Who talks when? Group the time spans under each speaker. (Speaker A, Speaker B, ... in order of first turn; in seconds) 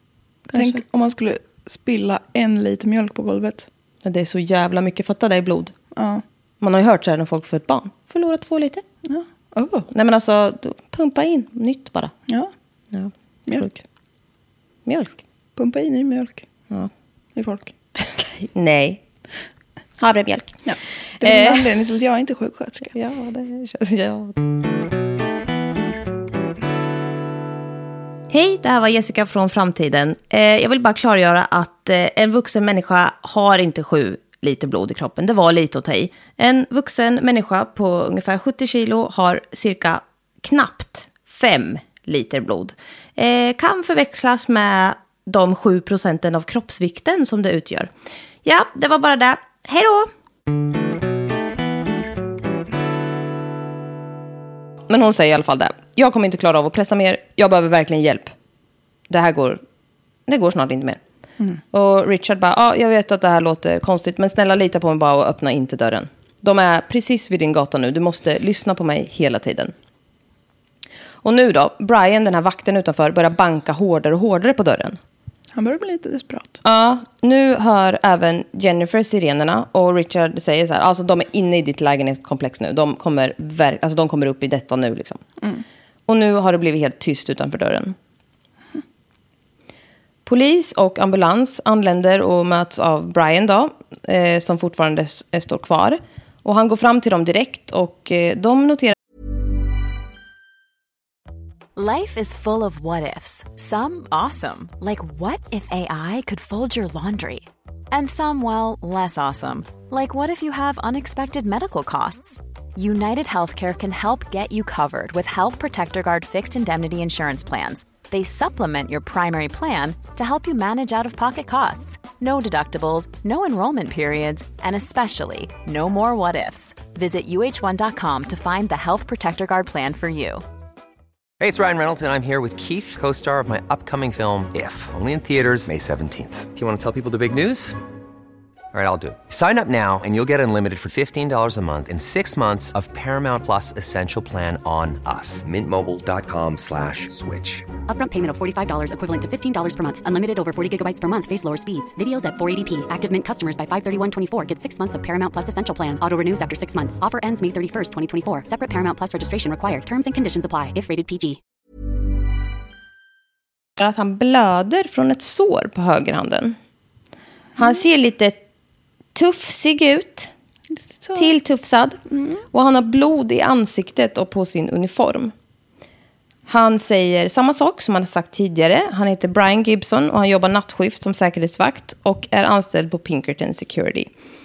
Speaker A: 0.5-0.8, 4.0-5.7, 6.6-8.8, 9.9-12.1, 12.9-13.8, 14.9-15.2, 18.3-19.0, 20.0-20.6, 21.2-21.7, 22.9-24.4, 28.3-47.9, 48.4-50.1, 54.9-58.3, 59.1-59.6, 60.3-61.0, 61.7-69.7, 71.2-75.0, 76.6-85.2, 86.1-88.0, 90.3-99.0, 163.8-166.6, 167.6-168.4, 169.2-170.3, 171.2-172.0, 172.5-175.3, 176.5-184.1
Speaker B: 0.5-3.7, 6.0-6.2, 9.1-9.9, 15.6-16.4, 17.4-17.8, 20.7-22.9, 75.5-76.6, 171.0-171.3, 172.1-172.4
Speaker C: 101.8-130.4
Speaker D: 131.4-137.8, 138.7-147.7
Speaker E: 147.9-161.4